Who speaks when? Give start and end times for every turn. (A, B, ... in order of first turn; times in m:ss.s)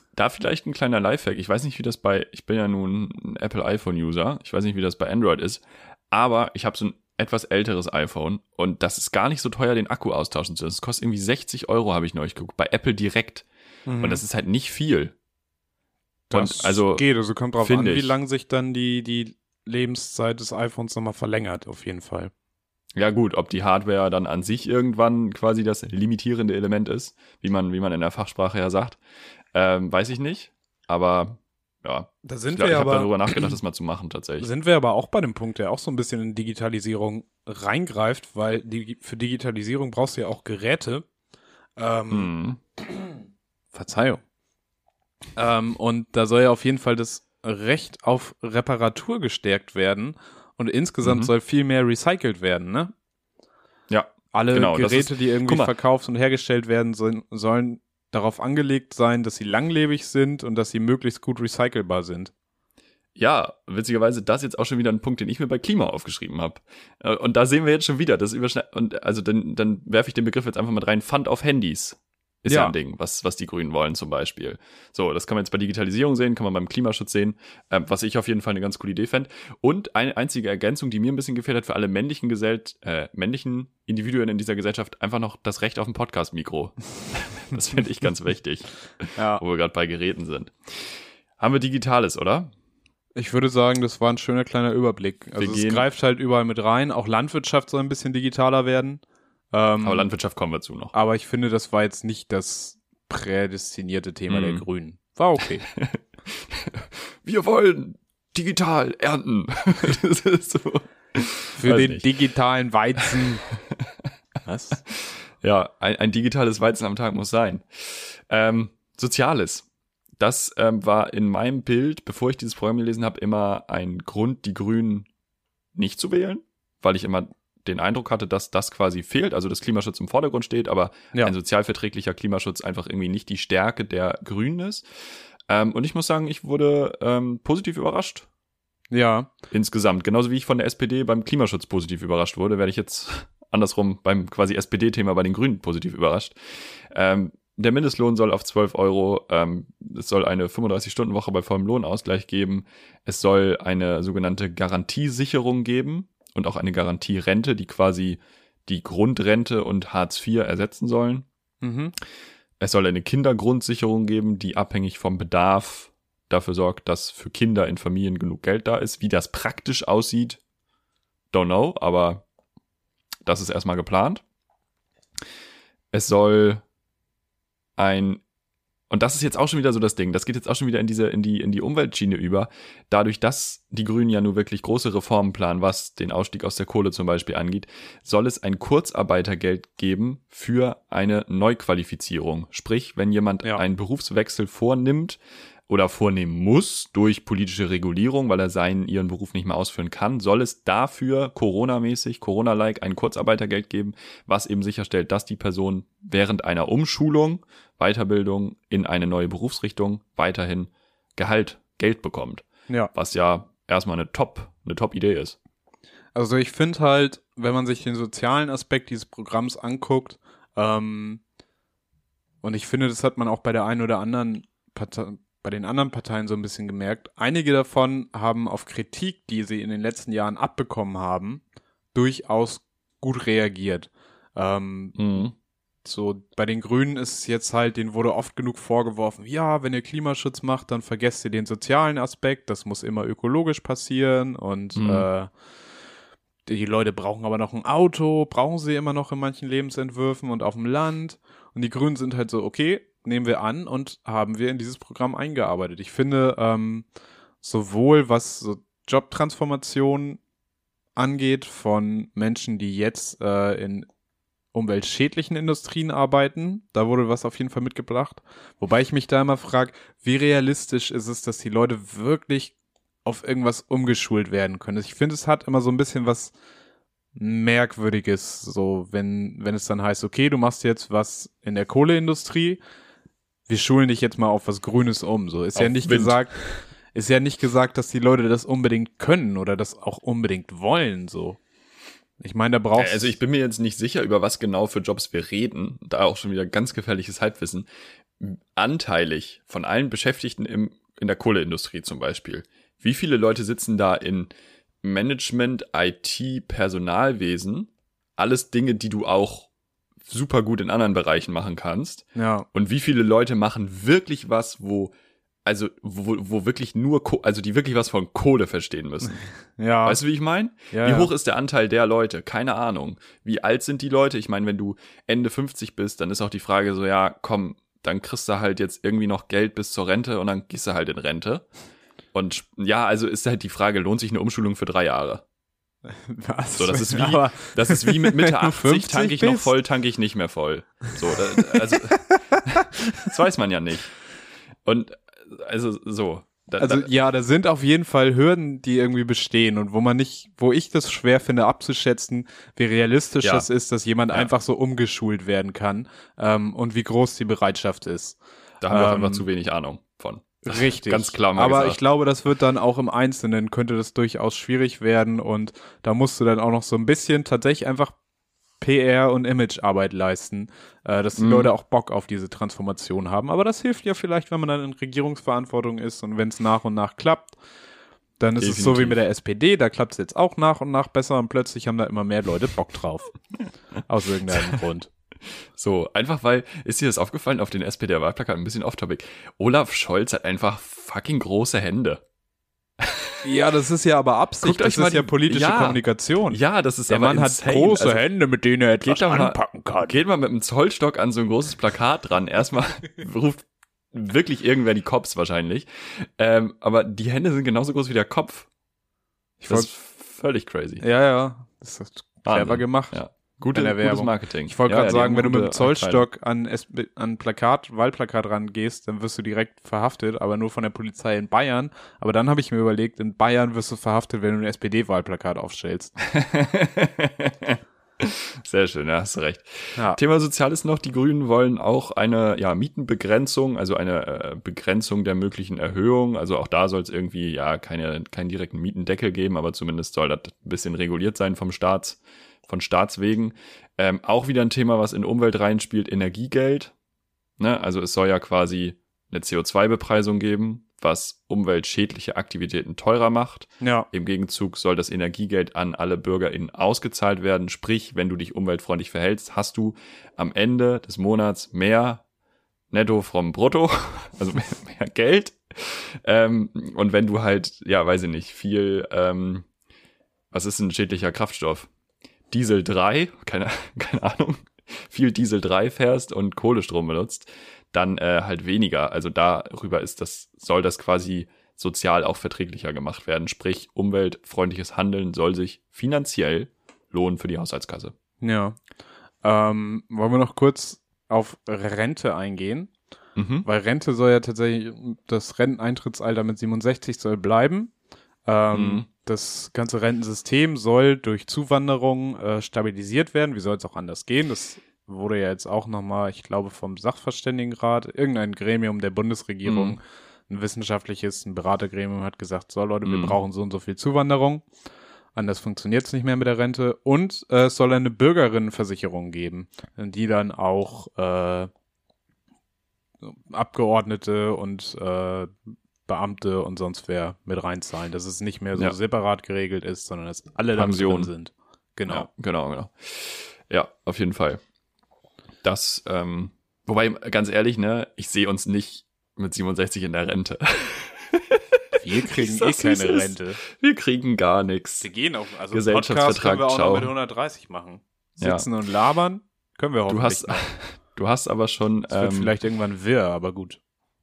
0:00.1-0:13.4 A
0:13.9-0:14.2 B
0:14.0-0:15.1 A
0:16.3-0:22.3 B
0:16.3-0:17.0 A
0:17.6-0:18.2 A
0:23.0-0:29.0 A
0:29.5-0:34.5 A
0:32.2-0:33.6 B
0:34.4-0:41.0 B
0:41.8-0:42.3 B
0:42.1-0:42.6 A
0:42.8-0:43.2 B
0:43.7-0:44.2 B
0:45.4-0:52.9 B
0:51.0-0:51.3 A
0:53.9-0:55.7 A
0:54.3-1:02.3 B
1:03.2-1:32.5 A
1:12.5-1:12.7 B
1:29.2-1:29.4 B
1:33.2-1:39.0 B
1:35.4-1:35.8 A
1:39.5-1:40.1 B
1:39.8-1:40.9 A
1:40.9-1:45.6 B
1:44.3-1:44.6 A
1:45.4-1:52.1 A
1:51.6-1:53.4 B
1:53.2-1:53.9 A
1:54.4-1:54.8 B
1:55.0-1:59.6 A
2:00.2-2:05.1 A
2:05.7-2:14.8 A
2:15.5-2:18.3 A
2:18.9-2:19.3 B
2:19.5-2:41.2 A
2:41.6-2:41.9 B
2:42.6-2:50.4 A
2:51.3-2:52.2 A
2:53.2-2:54.2 A
2:55.9-2:56.6 A
2:57.8-2:58.2 A
2:58.9-3:35.4 A
3:36.1-3:41.2 B
3:42.4-3:51.4 B
3:51.9-3:55.0 B
3:55.0-3:55.3 A
3:55.8-4:05.3 B
4:04.8-4:05.0 A
4:06.4-4:16.8 B
4:17.4-4:20.2 B
4:21.0-4:23.9 B
4:24.5-4:36.3 B
4:37.2-4:42.6 B
4:43.5-4:46.3 B
4:45.6-4:46.6 A
4:46.9-4:51.4 B
4:52.2-4:53.2 B
4:52.8-4:57.7 A
4:58.2-5:04.3 A
5:04.8-5:09.5 A
5:10.1-5:14.9 A
5:12.2-5:12.4 B
5:15.4-5:19.2 A
5:19.6-5:20.0 B
5:19.8-5:31.4 A
5:20.7-5:21.1 B
5:32.1-5:35.2 A
5:35.9-5:39.5 B
5:36.5-5:43.9 A
5:41.4-5:42.4 B
5:44.6-5:46.9 A
5:46.6-5:58.2 B
5:58.6-6:01.8 A
5:58.7-5:59.2 B
6:00.4-6:07.9 B
6:08.6-6:17.4 B
6:11.2-6:11.5 A
6:18.2-6:23.1 B
6:18.4-6:19.0 A
6:23.8-6:24.9 B
6:25.5-6:32.0 A
6:32.8-6:33.1 A
6:33.2-6:39.9 B
6:34.4-6:38.0 A
6:38.8-6:48.5 A
6:49.4-6:49.7 B
6:49.5-6:50.8 A
6:50.8-6:53.0 B
6:52.2-6:56.0 A
6:53.5-7:05.9 B
7:06.0-7:26.7 A
7:27.4-7:42.0 A
7:33.6-7:33.9 B
7:42.7-7:49.5 A
7:50.3-7:51.7 A
7:52.3-8:07.9 A
8:08.2-8:08.6 B
8:09.2-8:12.7 B
8:13.2-8:13.4 A
8:13.4-8:17.7 B
8:18.2-8:34.4 B
8:18.5-8:18.8 A
8:29.4-8:29.8 A
8:32.8-8:33.2 A
8:35.1-8:41.5 B
8:43.0-8:45.3 B
8:45.8-8:52.1 B
8:50.5-8:51.1 A
8:51.9-8:54.4 A
8:55.4-9:04.9 A
9:01.8-9:03.4 B
9:04.8-9:10.4 B
9:05.5-9:06.9 A
9:08.2-9:08.4 A
9:09.9-9:12.3 A
9:11.9-9:13.6 B